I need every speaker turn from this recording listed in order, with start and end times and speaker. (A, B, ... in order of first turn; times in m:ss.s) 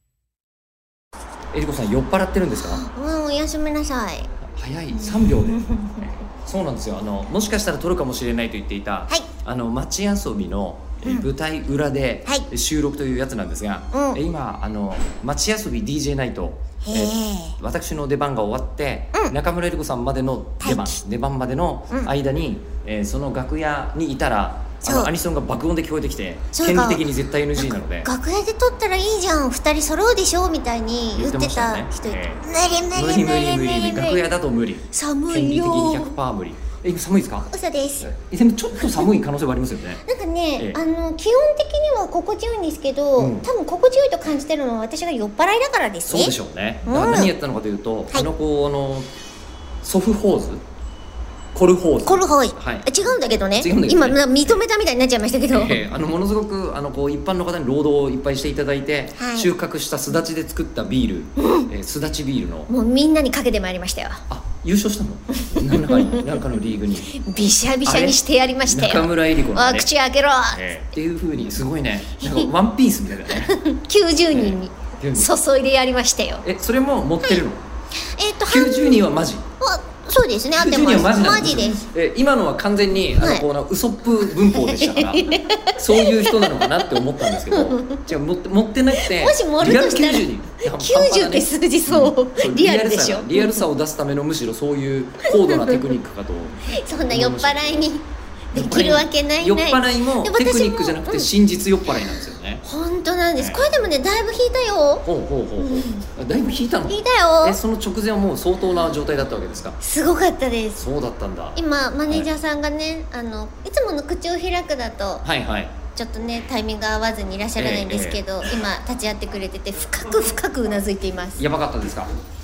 0:01.5-0:02.8 A
0:02.7-0:04.3 B
0:04.5-0:28.1 A
0:04.9-0:06.0 B
0:13.9-0:14.2 B
0:16.8-0:17.5 B
0:20.6-0:21.0 B
0:24.8-0:25.1 B
0:26.5-0:27.0 B
0:27.5-0:34.2 B
0:31.1-0:37.5 A
0:34.9-0:36.1 B
0:37.5-0:38.1 B
0:38.0-0:40.0 A
0:38.8-0:39.0 B
0:40.0-0:46.3 B
0:43.2-0:43.5 A
0:46.1-0:49.1 A
0:46.8-0:47.3 B
0:49.8-0:50.6 A
0:51.5-0:54.6 A
0:52.0-0:55.8 B
0:55.4-1:02.7 A
0:59.2-0:59.5 B
1:01.4-1:01.6 B
1:02.7-1:04.2 B
1:04.3-1:07.2 A
1:05.4-1:06.2 B
1:07.1-1:10.7 B
1:07.8-1:09.9 A
1:10.5-1:13.5 A
1:12.2-1:12.5 B
1:13.3-1:16.4 B
1:14.3-1:15.3 A
1:16.4-1:17.6 A
1:18.2-1:19.0 B
1:18.5-1:19.4 A
1:19.6-1:21.8 B
1:20.5-1:25.2 A
1:23.1-1:23.4 B
1:24.2-1:26.6 B
1:25.8-1:37.9 A
1:27.5-1:28.0 B
1:28.9-1:33.6 B
1:35.2-1:35.8 B
1:36.7-1:41.3 B
1:38.5-1:42.6 A
1:42.6-1:45.0 B
1:43.4-1:43.6 A
1:45.0-1:49.8 A
1:45.6-1:46.0 B
1:46.8-1:47.6 B
1:49.8-1:50.8 B
1:50.8-1:52.3 A
1:51.5-1:55.2 B
1:55.2-1:55.8 A
1:55.9-2:01.4 B
1:57.6-1:58.2 A
2:01.4-2:02.1 A